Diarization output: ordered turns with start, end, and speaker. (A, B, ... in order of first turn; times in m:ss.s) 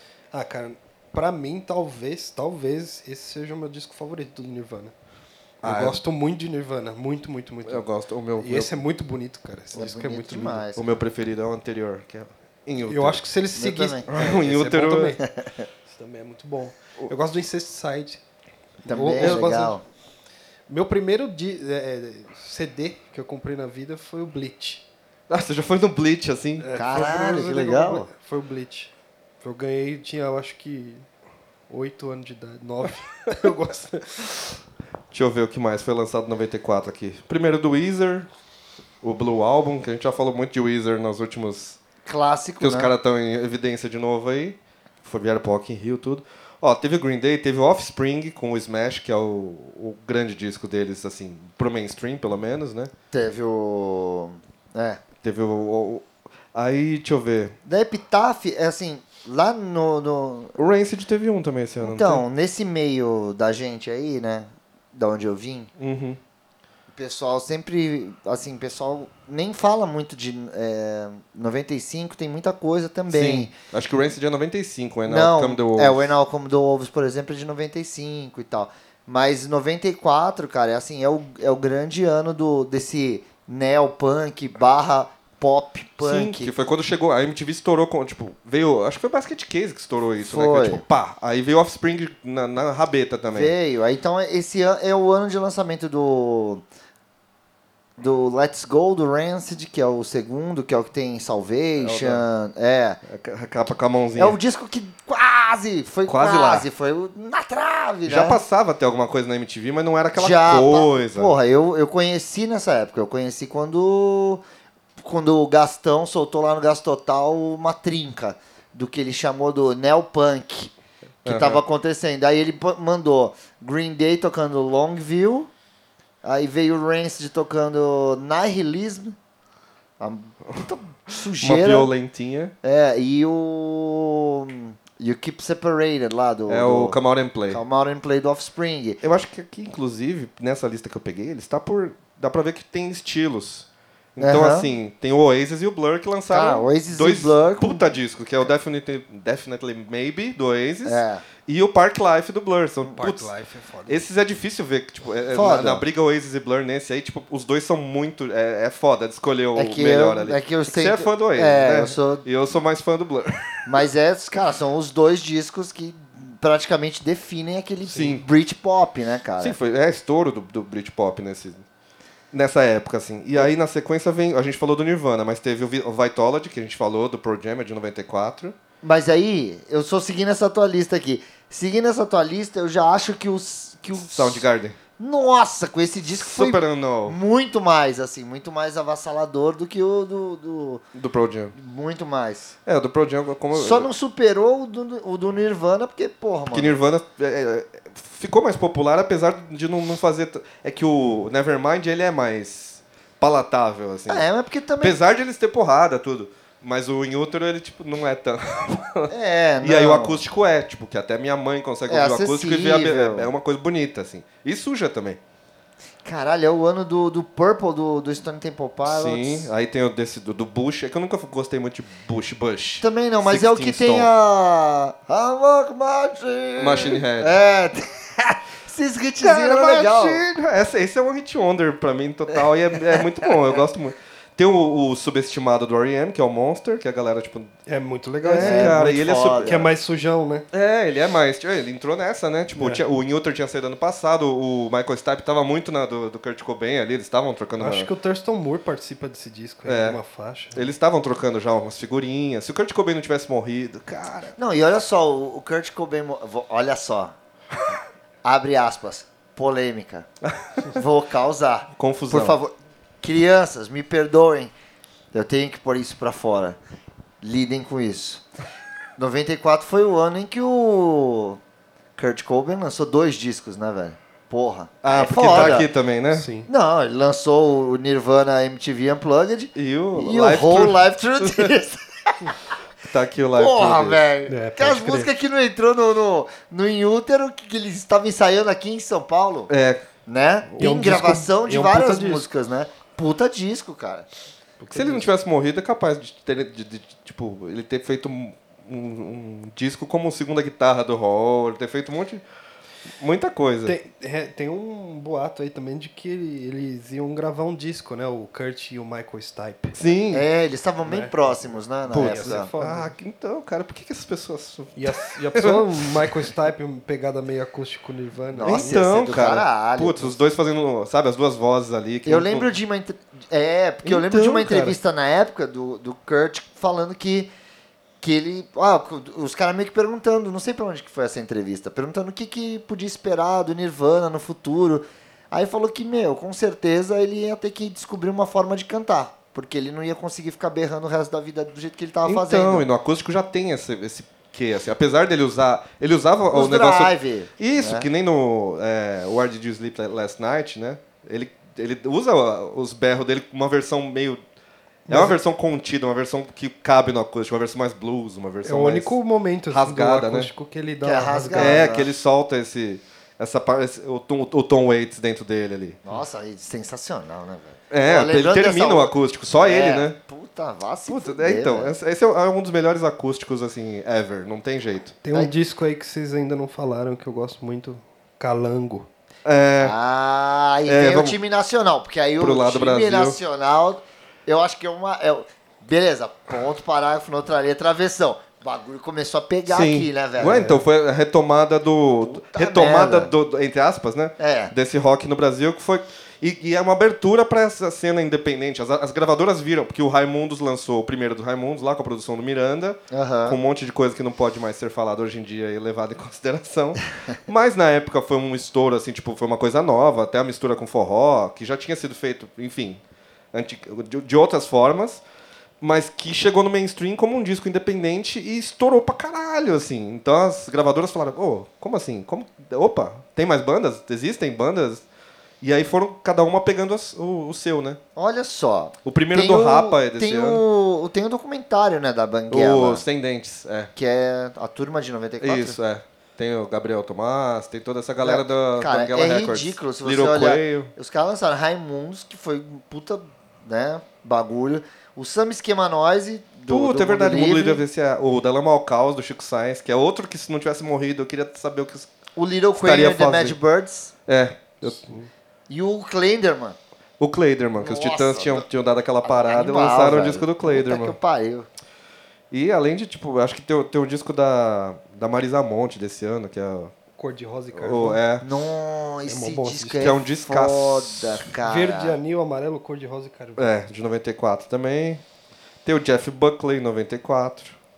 0:00.3-0:04.9 A
0:05.6-0:07.8 A
0:05.6-0:06.0 B
0:07.6-0:08.8 B
0:08.4-0:10.6 A
0:09.7-0:10.9 C
0:10.7-0:13.2 B
0:12.8-0:15.2 A
0:13.5-0:14.0 C
0:14.1-0:15.2 B
0:15.2-0:15.7 C
0:15.8-0:18.2 A
0:18.8-0:19.8 A
0:18.9-0:19.8 C
0:19.2-0:19.4 B
0:20.7-0:24.8 A
0:25.3-0:26.7 B
0:26.6-0:31.0 A
0:26.7-0:28.1 C
0:31.7-0:34.6 A
0:35.1-0:38.3 B
0:39.0-0:41.8 B
0:42.0-0:42.9 C
0:42.6-0:52.9 B
0:53.1-0:55.0 C
0:55.2-0:57.5 B
0:57.6-1:00.5 C
1:00.6-1:02.2 B
1:01.8-1:05.7 C
1:05.8-1:06.2 B
1:06.9-1:13.5 C
1:13.1-1:16.1 B
1:15.1-1:26.5 C
1:26.0-1:33.5 B
1:30.2-1:30.8 C
1:33.3-1:36.6 C
1:38.0-1:43.0 C
1:41.8-1:42.2 B
1:43.0-1:44.4 B
1:44.2-1:48.4 C
1:46.1-1:46.6 B
1:48.0-1:51.3 B
1:50.1-1:54.4 C
1:55.0-2:00.7 C
2:01.2-2:01.6 B
2:01.2-2:05.5 C
2:06.2-2:09.2 C
2:10.0-2:11.9 C
2:10.5-2:12.5 B
2:12.6-2:17.0 C
2:16.5-2:17.6 B
2:17.5-2:19.0 C
2:19.0-2:33.3 B
2:24.2-2:24.7 C
2:26.3-2:27.9 C
2:30.8-2:31.2 C
2:32.9-2:34.0 A
2:33.9-2:43.6 B
2:35.3-2:35.8 C
2:39.6-2:42.2 C
2:43.6-2:49.6 C
2:47.9-2:48.2 B
2:49.4-2:51.6 B
2:52.3-2:58.5 B
2:58.8-3:04.4 C
3:04.0-3:04.8 B
3:05.0-3:10.8 C
3:06.2-3:07.2 B
3:10.9-3:11.5 B
3:11.5-3:12.5 C
3:12.6-3:13.9 B
3:13.5-3:16.7 C
3:16.5-3:24.3 B
3:24.1-3:25.0 C
3:24.8-3:35.2 B
3:29.1-3:30.2 C
3:31.9-3:33.3 C
3:36.0-3:39.5 C
3:38.8-3:44.1 B
3:42.8-3:50.2 C
3:46.6-3:47.3 B
3:49.2-3:57.5 B
3:52.9-3:53.6 C
3:57.6-4:00.4 A
3:58.2-3:59.6 B
3:58.4-3:59.6 C
4:00.5-4:07.9 B
4:02.6-4:02.8 A
4:07.6-4:10.7 A
4:09.6-4:10.0 B
4:10.5-4:14.4 B
4:14.4-4:17.1 C
4:18.2-4:20.1 C
4:20.2-4:20.7 B
4:20.7-4:24.5 C
4:21.8-4:22.4 B
4:25.1-4:26.6 C
4:27.2-4:28.2 C
4:29.0-4:31.4 C
4:32.0-4:35.7 C
4:34.8-4:36.3 B
4:36.1-4:36.5 A
4:36.5-4:42.4 C
4:39.5-4:41.5 B
4:42.8-4:44.0 B
4:43.4-4:49.5 C
4:44.3-4:45.1 A
4:49.5-4:49.8 B
4:50.0-4:54.0 C
4:50.6-4:52.3 A
4:54.6-4:55.1 A
4:54.7-5:02.2 B
5:03.0-5:03.8 B
5:03.6-5:09.8 A
5:09.7-5:10.2 B
5:10.1-5:12.5 C
5:10.8-5:12.9 A
5:11.9-5:16.2 B
5:14.8-5:18.8 A
5:18.3-5:20.2 C
5:18.4-5:22.5 B
5:22.0-5:27.3 C
5:23.8-5:24.7 B
5:28.0-5:42.7 C
5:42.0-5:54.2 B
5:46.3-5:47.9 C
5:54.9-5:55.2 A
5:54.9-5:58.9 B
5:58.4-6:01.7 A
5:59.5-6:00.3 B
6:00.8-6:01.9 C
6:01.3-6:05.8 B
6:05.8-6:11.7 C
6:07.7-6:10.0 B
6:10.9-6:15.0 B
6:15.0-6:18.9 A
6:19.2-6:19.8 B
6:19.6-6:30.5 C
6:20.6-6:21.2 B
6:22.2-6:23.2 B
6:29.5-6:52.8 B
6:30.2-6:30.6 A
6:32.0-6:33.1 C
6:34.2-6:34.5 C
6:42.9-6:43.4 C
6:53.3-6:55.0 B
6:55.6-7:04.8 B
7:05.4-7:07.8 B
7:08.0-7:12.8 C
7:08.8-7:10.4 B
7:12.3-7:13.7 B
7:13.8-7:15.6 C
7:15.2-7:20.7 B
7:18.0-7:27.6 C
7:26.5-7:31.9 B
7:32.2-7:33.9 C
7:32.6-7:33.4 B
7:34.1-7:34.8 B
7:34.6-7:35.1 A
7:35.5-7:36.6 C
7:37.0-7:41.0 B
7:37.6-7:38.4 C
7:39.0-7:41.5 C
7:42.3-7:46.7 B
7:47.0-7:48.0 A
7:47.5-7:48.2 B
7:48.2-7:52.0 C
7:49.0-7:49.9 A
7:49.8-7:51.2 B
7:51.4-7:53.5 A
7:53.4-7:55.0 B
7:55.6-7:57.6 B